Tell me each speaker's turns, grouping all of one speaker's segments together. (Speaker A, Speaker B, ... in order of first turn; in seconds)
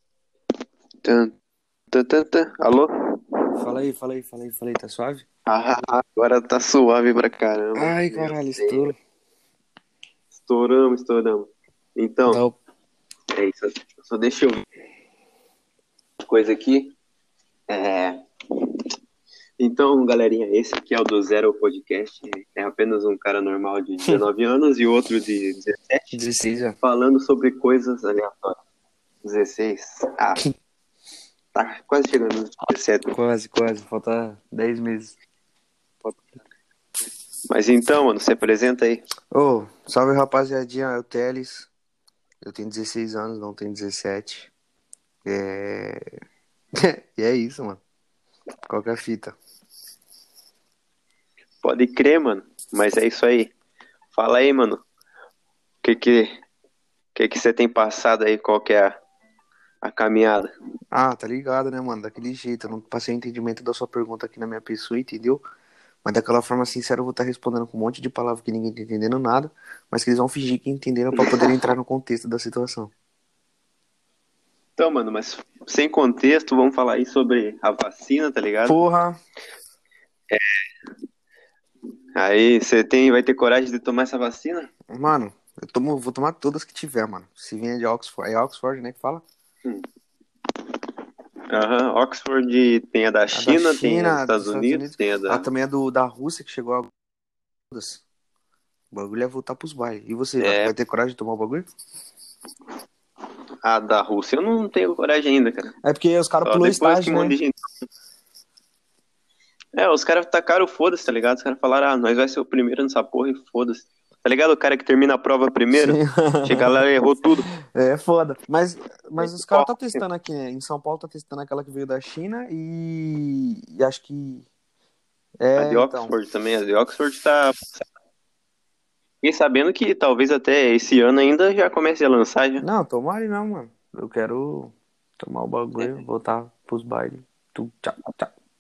Speaker A: 1.0-1.3, 1.9-3.5, 5.5-8.8, 10.3-12.4, 13.3-14.7, 16.2-16.9, 17.7-18.8, 19.6-26.1, 26.8-28.6, 29.2-30.4, 31.5-33.1, 37.5-39.0, 51.6-53.5, 54.1-54.8, 55.8-56.4, 57.1-59.0, 59.8-60.5, 71.2-71.5, 74.8-78.8, 80.3-80.6, 82.2-84.7, 91.5-95.5, 100.4-100.7, 103.6-105.8, 106.4-107.6, 109.8-117.5, 119.2-120.0, 125.6-127.9, 129.2-132.7
Speaker B: 3.6-5.3, 7.8-9.0, 12.3-12.6, 26.1-26.8, 33.1-35.1, 39.3-41.7, 42.4-44.5, 45.2-46.1, 46.8-47.8, 48.7-49.4, 60.9-65.4, 66.0-72.9, 78.7-79.2, 84.9-89.2, 93.3-96.9, 97.7-98.0, 98.9-101.7, 105.8-107.3, 115.7-124.5, 125.4-126.1, 132.6-138.3